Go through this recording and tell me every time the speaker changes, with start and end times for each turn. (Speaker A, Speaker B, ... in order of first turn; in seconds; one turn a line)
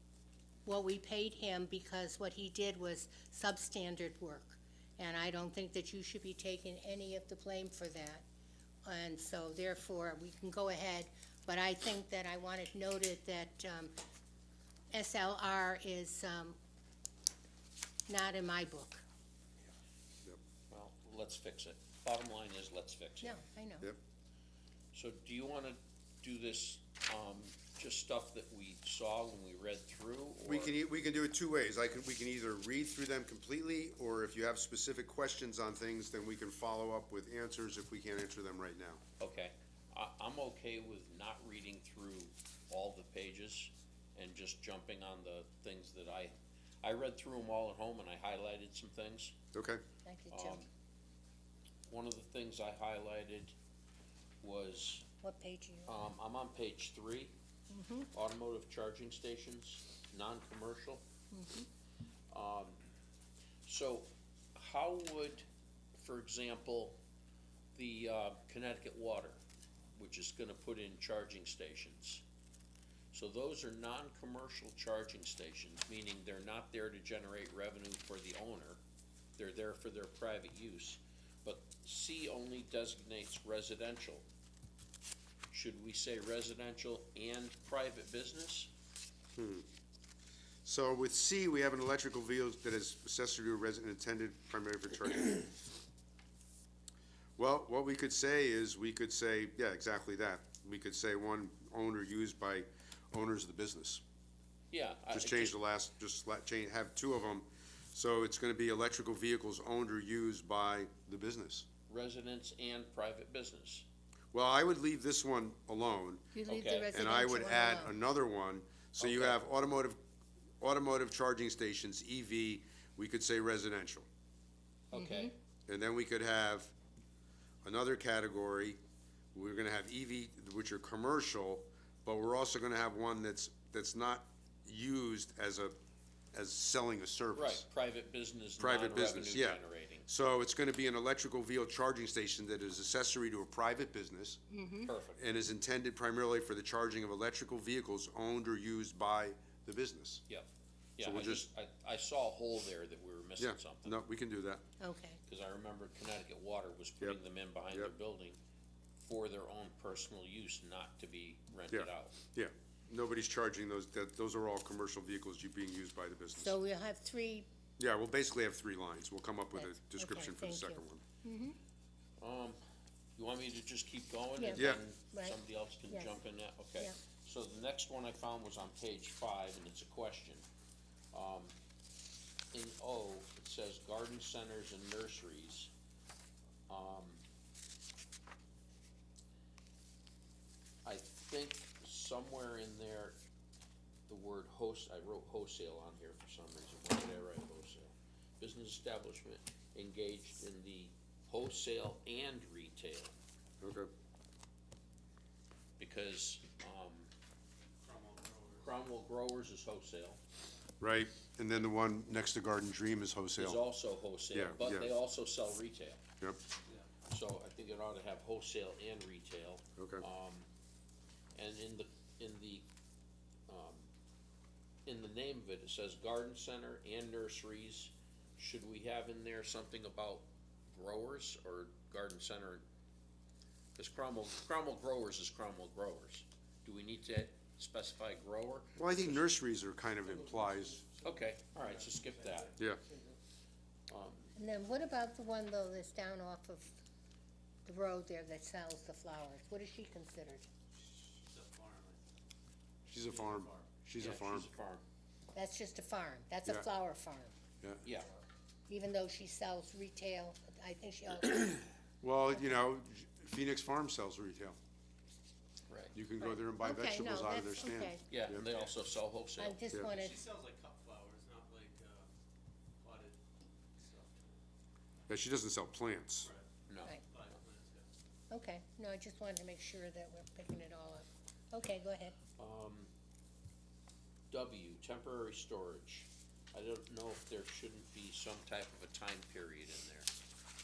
Speaker A: 0.7-8.2
Speaker A: 8.8-13.9
Speaker A: 14.9-16.6
Speaker A: 18.1-19.0
Speaker B: 20.7-23.4
Speaker A: 23.2-23.9
Speaker B: 24.9-30.8
Speaker C: 30.4-39.0
Speaker B: 39.2-49.3
Speaker C: 49.5-49.8
Speaker A: 50.0-50.6
Speaker B: 50.3-50.7
Speaker B: 51.9-53.5
Speaker B: 54.4-55.1
Speaker A: 55.2-56.0
Speaker B: 55.9-57.3
Speaker A: 57.7-58.1
Speaker B: 58.1-61.0
Speaker A: 61.3-61.7
Speaker B: 62.3-62.8
Speaker B: 63.7-67.0
Speaker B: 67.8-69.4
Speaker B: 70.0-72.2
Speaker B: 73.1-78.8
Speaker B: 79.4-84.2
Speaker B: 85.5-88.7
Speaker C: 89.4-89.7
Speaker C: 90.7-95.5
Speaker C: 97.4-104.0
Speaker B: 104.7-105.5
Speaker C: 105.1-111.7
Speaker B: 111.9-113.8
Speaker C: 114.3-116.3
Speaker A: 116.3-118.0
Speaker B: 116.5-116.9
Speaker C: 116.9-120.0
Speaker B: 119.0-119.4
Speaker C: 120.6-124.1
Speaker B: 124.9-125.3
Speaker A: 124.9-125.3
Speaker C: 125.7-126.7
Speaker C: 127.6-128.8
Speaker C: 129.3-135.8
Speaker C: 136.3-137.7
Speaker B: 137.3-140.1
Speaker C: 138.6-144.4
Speaker A: 144.5-144.9
Speaker B: 144.9-145.2
Speaker C: 145.2-150.2
Speaker B: 150.3-154.0
Speaker C: 151.0-151.5
Speaker C: 153.4-154.6
Speaker A: 154.8-155.2
Speaker B: 155.3-158.4
Speaker B: 159.0-162.2
Speaker C: 161.7-166.6
Speaker A: 166.4-167.5
Speaker C: 167.8-171.0
Speaker A: 169.6-171.6
Speaker B: 172.2-172.6
Speaker B: 173.2-180.4
Speaker A: 174.4-176.2
Speaker C: 174.6-174.8
Speaker B: 181.1-181.5
Speaker B: 182.5-185.7
Speaker B: 186.7-187.2
Speaker B: 190.8-193.2
Speaker B: 194.1-203.1
Speaker C: 203.6-203.9
Speaker B: 205.8-207.1
Speaker D: 207.8-208.7
Speaker B: 208.6-210.2
Speaker C: 210.8-213.6
Speaker B: 213.4-216.0
Speaker C: 214.3-214.9
Speaker B: 217.1-220.5
Speaker C: 219.8-220.1
Speaker B: 221.3-222.7
Speaker B: 223.5-223.9
Speaker B: 224.9-232.6
Speaker B: 233.8-239.3
Speaker C: 238.8-240.9
Speaker B: 241.0-242.6
Speaker D: 241.7-242.5
Speaker B: 243.9-244.3
Speaker A: 244.3-246.7
Speaker A: 247.7-250.5
Speaker D: 251.1-252.1
Speaker C: 252.9-254.5
Speaker D: 253.0-253.7
Speaker B: 254.0-254.8
Speaker A: 255.3-257.3
Speaker A: 258.7-261.7
Speaker C: 262.0-264.6
Speaker B: 265.7-265.9
Speaker C: 265.9-268.4
Speaker A: 266.2-268.0
Speaker B: 268.1-269.6
Speaker A: 269.4-270.2
Speaker D: 269.8-272.1
Speaker D: 272.8-273.2
Speaker D: 273.8-274.4
Speaker C: 275.1-276.3
Speaker B: 276.7-277.0
Speaker D: 277.1-277.9
Speaker A: 278.3-282.1
Speaker B: 282.4-282.9
Speaker B: 284.3-290.1